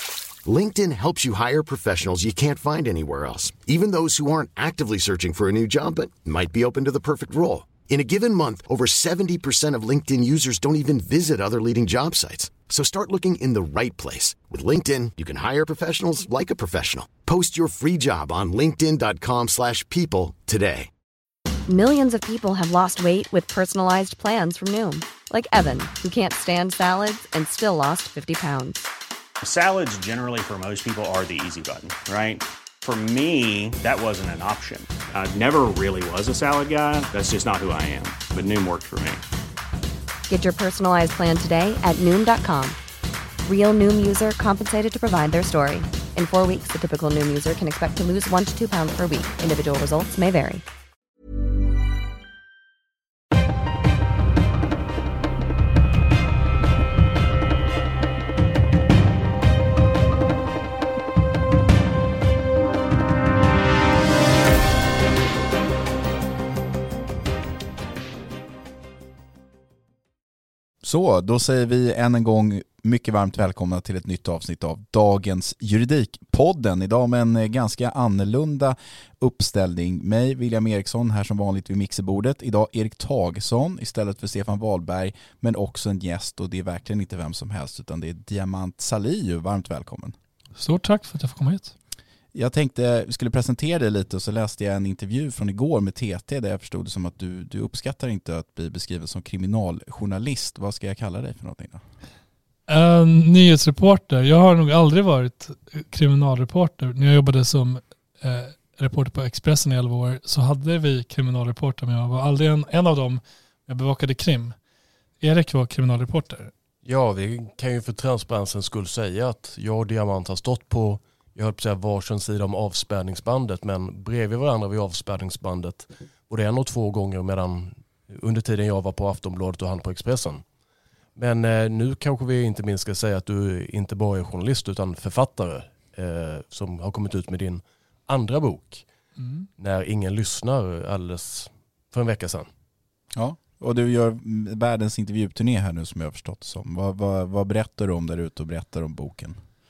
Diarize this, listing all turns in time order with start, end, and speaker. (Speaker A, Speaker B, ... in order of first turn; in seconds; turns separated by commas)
Speaker A: 0.4-20.9, Speaker B: 21.7-28.9, Speaker C: 29.4-39.2, Speaker B: 40.3-42.8, Speaker B: 43.4-50.6, Speaker D: 70.8-90.1, Speaker E: 90.6-91.7, Speaker D: 92.3-101.8, Speaker E: 102.7-114.5, Speaker E: 115.2-116.5, Speaker F: 116.8-130.4, Speaker F: 131.2-138.8, Speaker E: 139.2-139.5, Speaker F: 139.6-142.5, Speaker D: 143.1-149.4